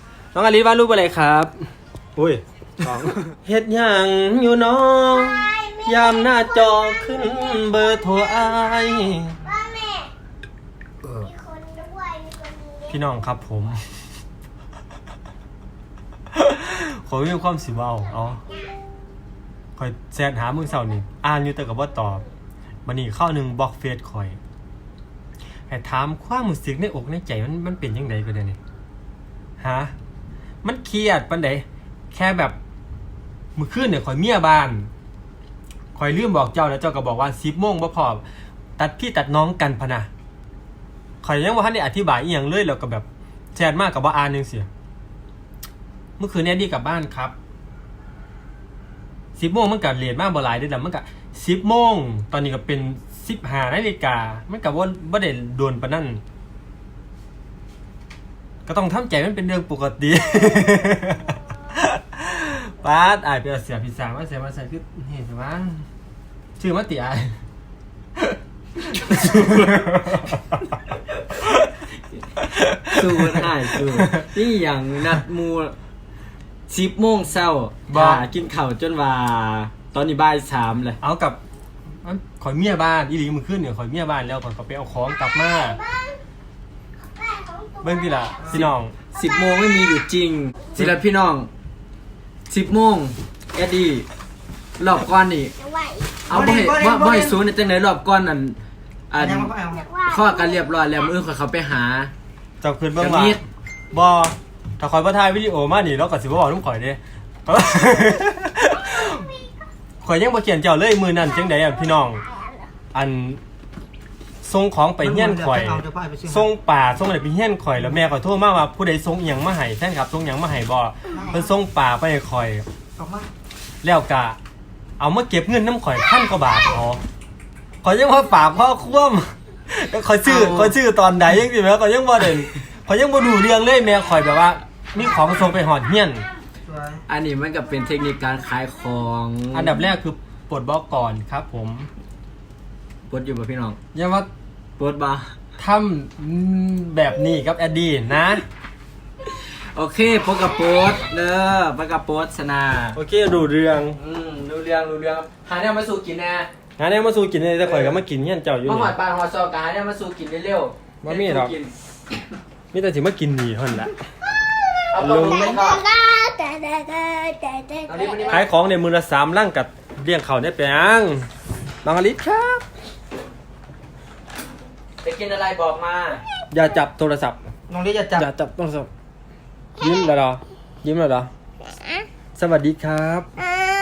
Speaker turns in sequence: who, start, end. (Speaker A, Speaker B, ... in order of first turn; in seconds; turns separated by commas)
Speaker A: 0.3-9.4, Speaker B: 9.4-10.1, Speaker A: 11.0-11.3, Speaker B: 11.3-12.8, Speaker A: 12.8-13.8, Speaker A: 16.3-18.4, Speaker A: 19.8-22.2, Speaker A: 22.9-24.4, Speaker A: 25.7-28.6, Speaker A: 29.6-29.9, Speaker A: 30.6-32.5, Speaker A: 33.5-34.9, Speaker A: 35.9-38.2, Speaker A: 38.8-40.1, Speaker A: 41.2-44.7, Speaker A: 46.2-47.3, Speaker A: 49.4-56.2, Speaker A: 58.6-65.8, Speaker A: 66.6-67.3, Speaker A: 68.9-70.6, Speaker C: 69.2-69.8, Speaker A: 71.4-71.6, Speaker A: 72.4-74.2, Speaker C: 72.9-75.7, Speaker C: 76.7-81.0, Speaker A: 77.9-78.2, Speaker A: 81.0-81.4, Speaker A: 82.0-85.8, Speaker B: 85.8-86.2, Speaker B: 87.1-88.3, Speaker A: 87.8-88.9, Speaker C: 88.5-91.5, Speaker C: 92.5-94.0, Speaker C: 94.8-95.5, Speaker B: 95.7-96.1, Speaker C: 96.2-98.6, Speaker D: 96.3-97.4, Speaker C: 99.1-102.1, Speaker D: 99.2-99.9, Speaker A: 102.6-103.4, Speaker C: 103.0-103.4, Speaker A: 103.9-109.3, Speaker A: 110.0-112.2, Speaker A: 112.9-113.4, Speaker A: 114.4-122.6, Speaker D: 115.0-116.5, Speaker D: 121.1-121.4, Speaker D: 123.0-123.3, Speaker A: 123.8-124.4, Speaker A: 125.0-127.0, Speaker A: 127.8-136.3, Speaker C: 130.2-130.7, Speaker D: 136.6-137.0, Speaker C: 137.1-139.8, Speaker A: 139.5-141.9, Speaker C: 143.1-143.8, Speaker A: 143.9-144.3, Speaker C: 144.8-145.3, Speaker A: 145.6-148.4, Speaker C: 149.2-153.0, Speaker A: 152.9-154.0, Speaker C: 153.9-156.5, Speaker A: 156.8-158.9, Speaker C: 157.6-157.9, Speaker C: 158.6-161.7, Speaker A: 161.0-161.5, Speaker A: 162.7-164.0, Speaker C: 164.9-165.8, Speaker A: 165.0-165.5, Speaker B: 165.5-168.3, Speaker C: 167.9-168.4, Speaker A: 168.3-171.3, Speaker A: 171.8-172.6, Speaker C: 175.0-176.2, Speaker A: 176.5-177.4, Speaker D: 177.7-178.2, Speaker A: 178.2-178.9, Speaker A: 179.8-181.3, Speaker A: 182.4-183.3